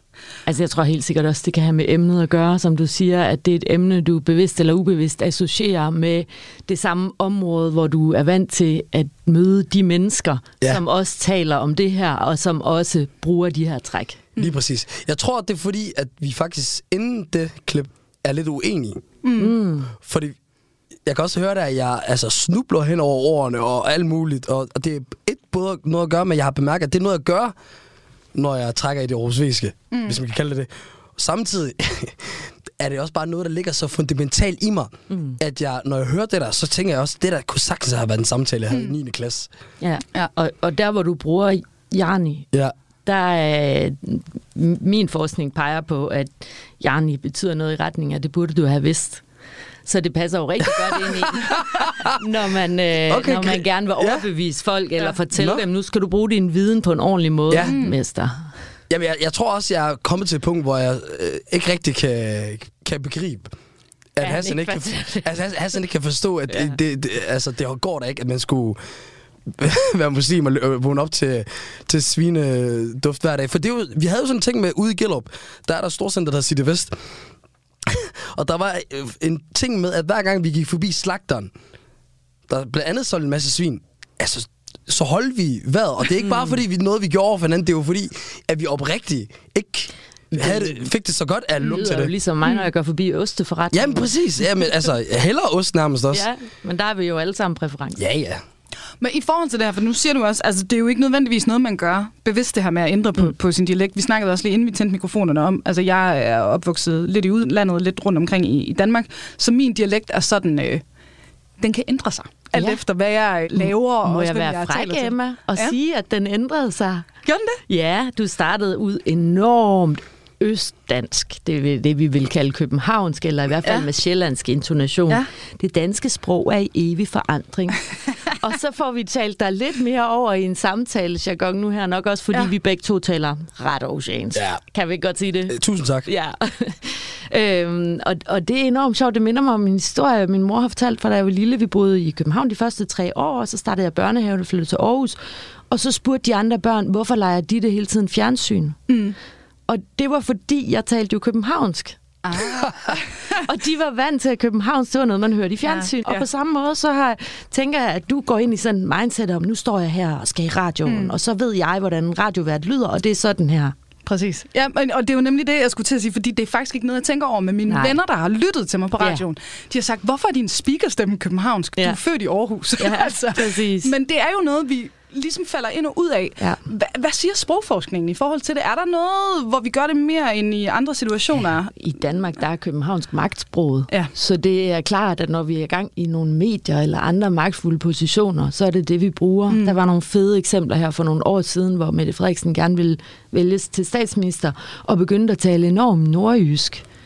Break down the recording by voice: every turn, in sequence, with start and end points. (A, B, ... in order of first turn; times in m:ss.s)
0:00.4-0:14.2 A
0:14.4-0:19.0 B
0:19.2-0:19.5 C
0:19.4-0:19.9 A
0:20.0-0:20.4 B
0:21.0-0:27.5 B
0:28.3-0:39.5 B
0:29.9-0:30.2 C
0:35.1-0:35.4 A
0:39.8-0:42.4 A
0:43.0-0:49.2 A
0:49.8-0:58.4 A
0:50.9-0:51.8 B
0:53.1-0:54.2 B
0:55.3-0:55.6 B
0:57.5-0:57.8 B
0:57.6-0:57.9 C
0:58.9-1:03.5 B
1:04.2-1:08.8 B
1:04.2-1:05.2 A
1:06.5-1:06.8 A
1:09.5-1:16.9 B
1:17.8-1:21.5 B
1:22.5-1:32.1 B
1:30.3-1:30.8 A
1:31.7-1:34.1 A
1:33.7-1:36.2 B
1:36.1-1:38.0 A
1:38.0-1:38.4 B
1:39.0-1:50.8 C
1:51.6-1:55.8 C
1:52.5-1:52.8 A
1:53.5-1:57.1 A
1:57.2-1:57.6 C
1:57.7-2:25.2 A
2:14.3-2:14.6 B
2:15.5-2:16.1 B
2:25.7-2:28.8 A
2:28.9-2:29.2 C
2:29.7-2:32.0 A
2:32.2-2:33.3 C
2:33.3-2:43.7 A
2:35.6-2:36.3 C
2:40.8-2:41.2 C
2:44.1-3:01.7 C
2:47.7-2:48.0 A
2:52.8-2:53.9 A
3:01.7-3:16.8 A